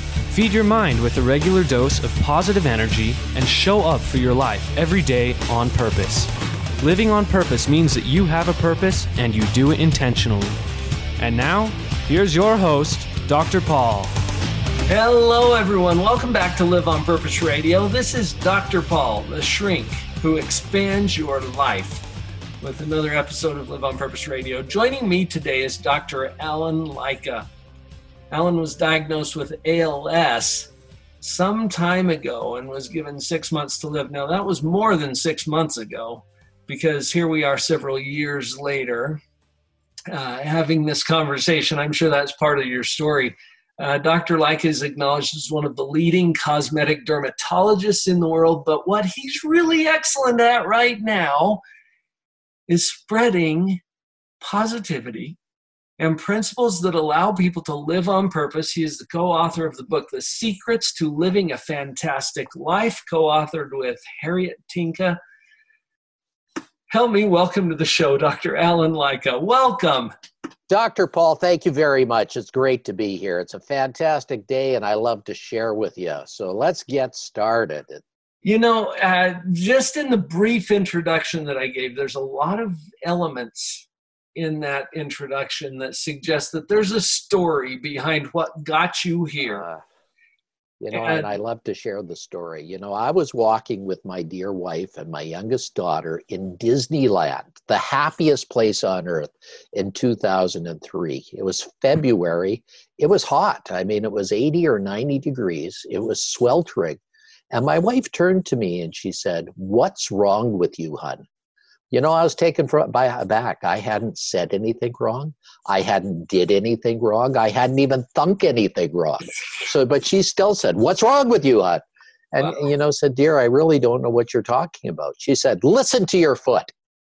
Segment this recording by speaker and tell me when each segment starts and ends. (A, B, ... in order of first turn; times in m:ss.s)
0:00.3-0:06.3 A
0:03.3-0:05.0 B
0:06.8-0:10.6 A
0:11.2-0:14.1 A
0:14.9-0:22.1 B
0:22.6-0:27.5 B
0:28.3-0:39.2 B
0:40.1-0:51.6 B
0:52.7-0:53.8 B
0:54.4-0:55.4 B
0:56.0-1:05.2 B
1:06.9-1:10.1 B
1:10.7-1:18.0 C
1:18.4-1:29.7 B
1:29.4-1:29.8 C
1:30.8-1:47.0 C
1:30.9-1:31.3 B
1:47.5-1:51.2 C
1:51.9-2:06.7 C